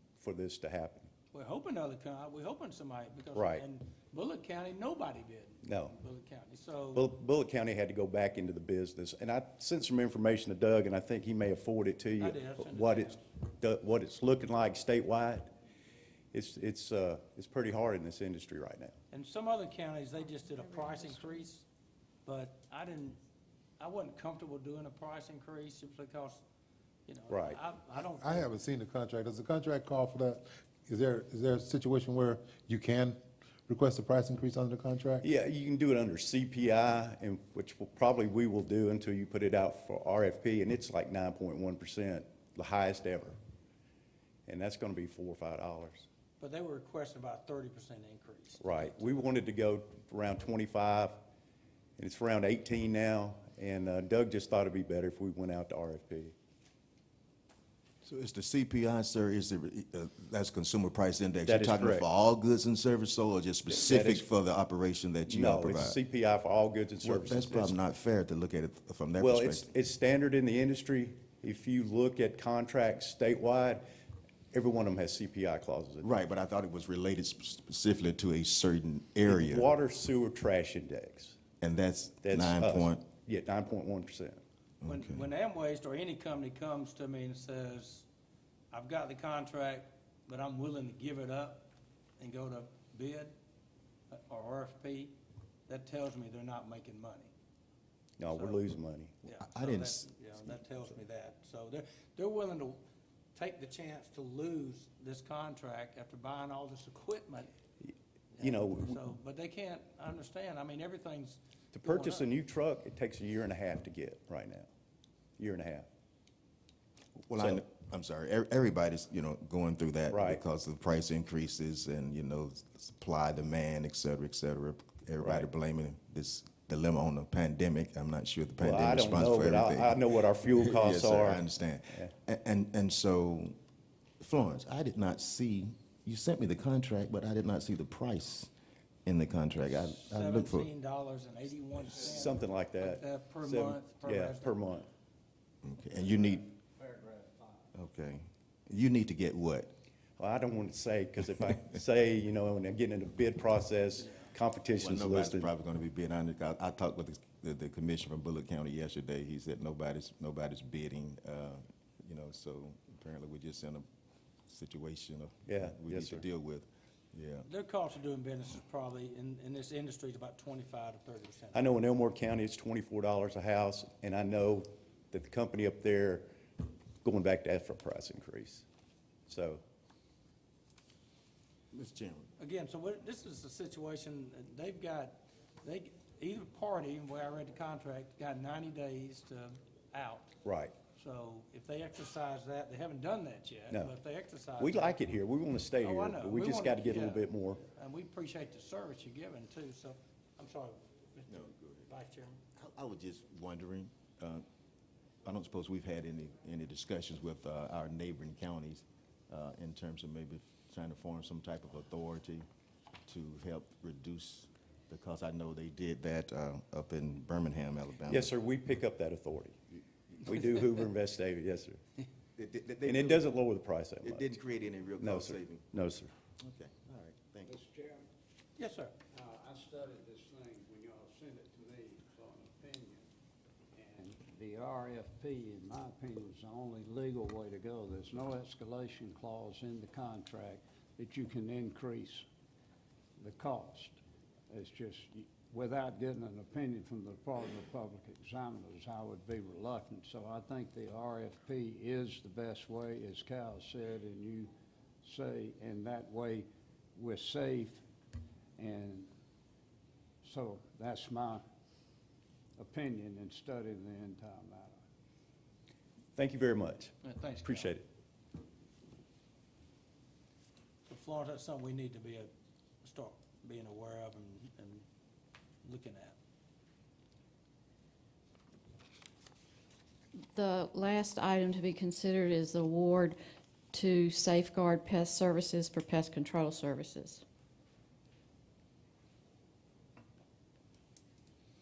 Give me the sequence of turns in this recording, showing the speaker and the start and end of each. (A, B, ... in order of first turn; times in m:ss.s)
0:00.2-0:01.1 A
0:01.3-0:07.0 B
0:03.3-0:03.6 A
0:05.6-0:06.0 A
0:06.9-0:15.5 A
0:12.2-0:13.2 B
0:16.3-0:18.9 A
0:19.1-0:21.6 B
0:22.3-0:23.2 B
0:23.8-0:26.4 B
0:27.1-0:28.5 B
0:27.3-0:27.6 A
0:28.1-0:35.2 C
0:35.2-0:43.4 A
0:44.5-0:46.1 A
0:46.4-0:49.3 B
0:48.6-0:51.2 A
0:52.0-0:56.4 A
0:58.0-1:06.0 D
1:01.4-1:02.1 A
1:03.7-1:04.2 A
1:05.3-1:07.8 A
1:07.0-1:09.7 D
1:09.2-1:13.8 A
1:14.5-1:16.2 A
1:16.0-1:19.7 D
1:19.2-1:21.4 A
1:21.6-1:23.0 D
1:22.2-1:24.4 A
1:24.8-1:25.2 D
1:24.9-1:28.1 B
1:28.7-1:33.3 B
1:34.1-1:35.2 B
1:35.7-1:37.3 B
1:38.2-1:39.2 A
1:38.3-1:38.6 B
1:39.2-1:42.8 B
1:39.4-1:40.1 D
1:43.4-1:47.5 B
1:47.8-1:49.1 A
1:48.4-1:52.3 B
1:51.7-1:54.7 A
1:55.4-1:55.9 A
1:57.3-2:13.6 D
2:00.1-2:00.4 A
2:05.2-2:05.5 A
2:08.6-2:12.1 A
2:14.2-2:18.5 D
2:19.0-2:20.7 D
2:19.8-2:24.6 B
2:22.0-2:24.9 A
2:25.6-2:26.5 D
2:26.8-2:27.6 E
2:27.7-2:29.7 D
2:30.2-2:35.5 A
2:34.8-2:43.9 D
2:44.5-2:47.5 D
2:45.5-2:46.2 A
2:47.5-2:51.7 B
2:51.5-2:56.3 A
2:57.0-2:58.7 A
2:59.3-2:59.6 A
3:01.7-3:02.3 D
3:02.4-3:10.4 B
3:10.4-3:10.7 A
3:11.0-3:15.0 B
3:14.6-3:17.6 A
3:15.8-3:21.3 B
3:21.3-3:21.9 D
3:21.9-3:22.4 B
3:22.6-3:24.4 D
3:25.2-3:32.5 D
3:33.1-3:38.3 D
3:38.1-3:39.6 A
3:40.2-3:41.8 A
3:42.4-3:43.3 D
3:42.8-3:44.3 A
3:44.0-3:45.6 D
3:45.0-3:46.1 A
3:46.4-3:47.6 D
3:47.5-3:48.1 E
3:48.6-3:48.9 B
3:49.1-3:53.1 E
3:53.7-4:02.3 E
4:03.2-4:04.0 E
4:04.5-4:14.5 E
4:15.0-4:17.8 E
4:18.6-4:19.1 E
4:20.2-4:21.4 E
4:22.6-4:24.8 E
4:26.2-4:27.9 A
4:27.0-4:27.7 B
4:30.9-4:32.3 B
4:32.8-4:34.8 B
4:35.6-4:36.2 B
4:40.3-4:43.2 F
4:43.7-4:47.2 F